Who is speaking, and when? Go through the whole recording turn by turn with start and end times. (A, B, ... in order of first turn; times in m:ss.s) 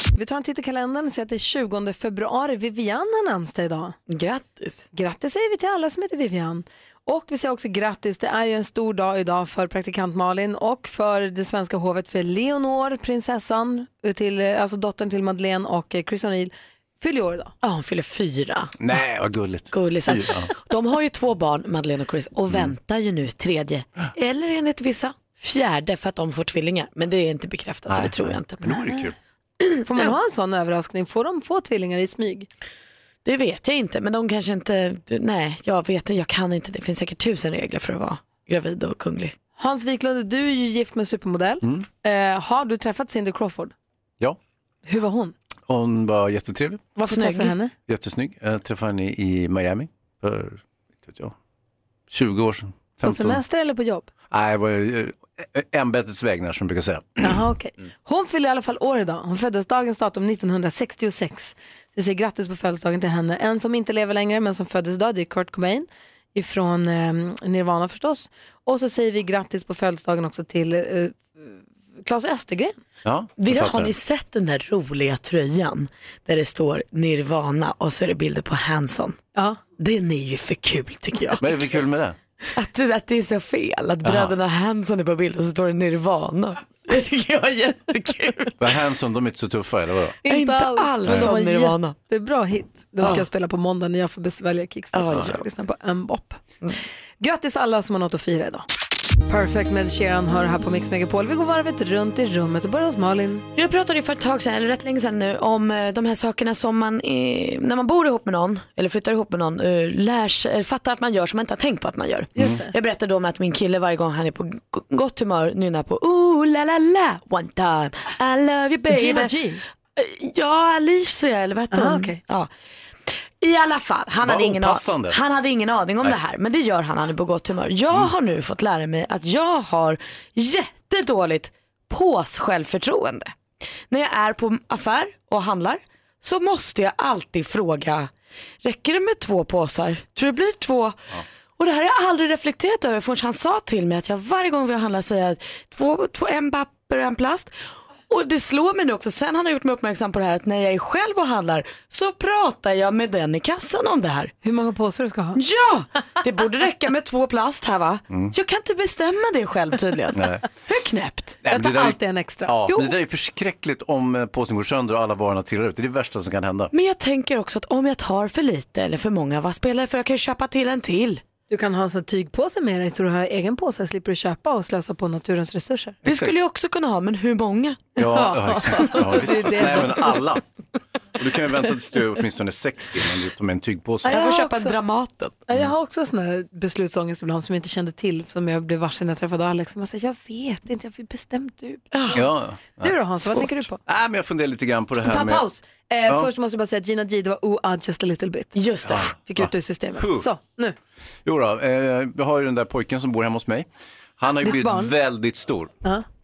0:00.2-0:04.0 A
0:04.1-0:04.9 B
0:04.9-0:17.5 A
0:17.6-0:18.7 B
0:18.8-0:20.5 C
0:19.7-0:28.9 B
0:22.5-0:22.8 C
0:27.9-0:29.2 C
0:29.6-0:30.1 B
0:29.9-0:32.5 A
0:33.2-0:39.3 B
0:39.6-0:43.7 A
0:41.6-0:41.9 C
0:44.9-0:45.3 A
0:45.7-0:46.9 C
0:47.0-0:47.7 A
0:47.1-0:47.6 B
0:47.9-0:51.4 C
0:52.1-0:53.4 C
0:53.0-0:54.1 A
0:54.3-0:57.4 C
0:57.2-1:12.8 A
1:13.0-1:14.0 C
1:13.4-1:19.2 B
1:19.4-1:19.6 A
1:19.8-1:21.5 B
1:21.4-1:22.2 C
1:22.6-1:28.6 B
1:24.0-1:24.4 C
1:28.6-1:30.2 C
1:30.2-1:36.4 A
1:30.3-1:32.0 B
1:34.9-1:35.4 B
1:37.2-1:38.6 A
1:39.3-1:43.4 A
1:43.6-1:59.4 B
1:52.4-1:52.7 A
1:58.9-1:59.6 A
2:00.0-2:02.5 B
2:01.7-2:02.2 A
2:03.1-2:13.3 B
2:04.2-2:05.2 C
2:13.9-2:18.1 B
2:18.6-2:27.6 B
2:28.1-2:34.3 B
2:34.4-2:35.4 A
2:35.4-2:41.4 B
2:40.1-2:40.4 C
2:41.4-2:46.7 C
2:41.5-2:42.6 A
2:46.7-2:51.2 B
2:51.5-2:56.0 A
2:56.0-2:56.3 C
2:56.0-2:57.9 B
2:58.0-3:00.4 C
2:58.0-3:00.2 A
3:01.2-3:04.2 C
3:04.0-3:05.4 B
3:04.1-3:04.8 A
3:05.5-3:12.1 A
3:11.9-3:12.2 B
3:12.1-3:15.4 C
3:12.8-3:13.8 A
3:15.0-3:18.6 A
3:18.6-3:19.1 B
3:18.9-3:20.3 C
3:19.1-3:20.8 A
3:21.2-3:23.7 C
3:24.2-3:25.7 C
3:24.4-3:24.9 A